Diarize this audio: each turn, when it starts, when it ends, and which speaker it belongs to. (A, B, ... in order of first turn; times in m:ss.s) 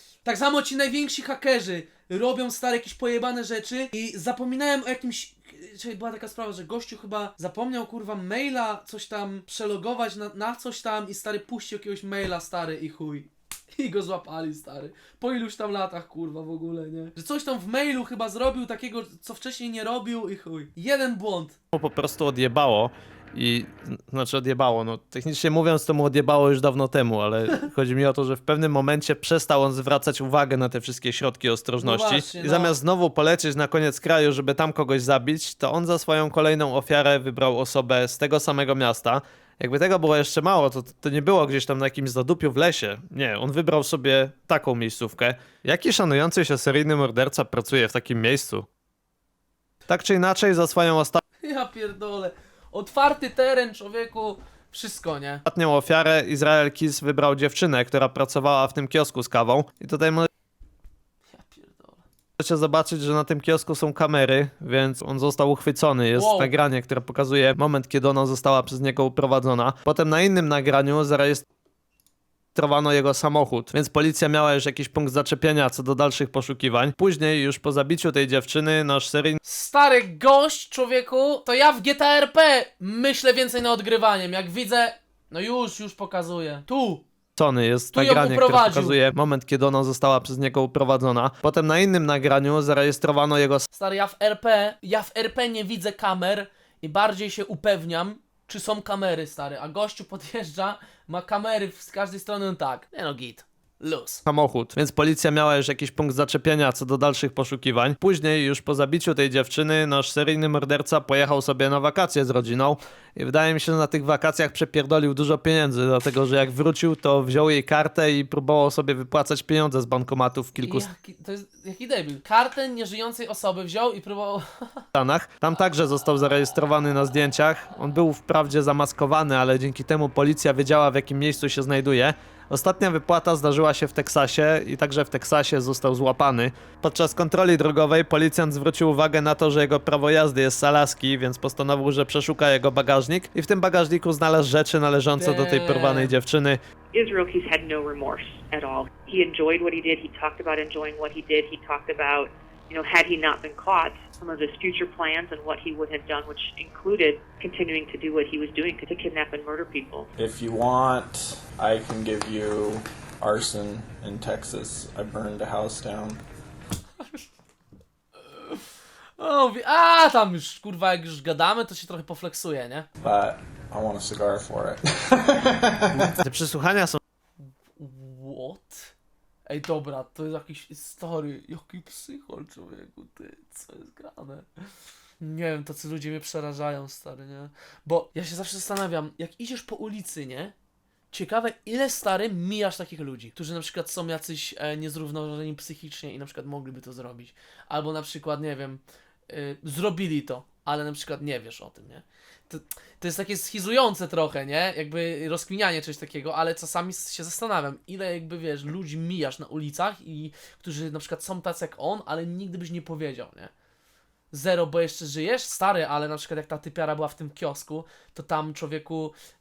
0:00.2-0:21.6 A
0:21.7-0:48.6 B
0:31.8-0:32.8 A
0:49.9-0:51.2 B
0:51.4-0:55.4 A
0:55.5-1:00.3 B
1:01.3-1:02.0 A
1:02.4-1:11.4 B
1:06.1-1:06.5 A
1:12.6-1:19.4 B
1:19.4-1:27.0 A
1:27.4-1:33.7 B
1:27.9-1:29.0 A
1:33.7-1:44.2 A
1:44.3-2:00.9 B
2:00.6-2:04.9 A
2:05.0-2:26.6 B
2:25.2-2:26.2 A
2:26.9-2:40.1 C
2:40.2-2:46.2 D
2:48.3-2:48.6 A
2:49.2-2:52.9 A
2:53.0-2:56.1 D
2:56.2-2:57.0 B
2:57.8-2:58.9 A
2:59.5-3:04.6 A
3:05.2-3:10.5 A
3:11.1-3:33.5 A
3:34.3-3:39.1 A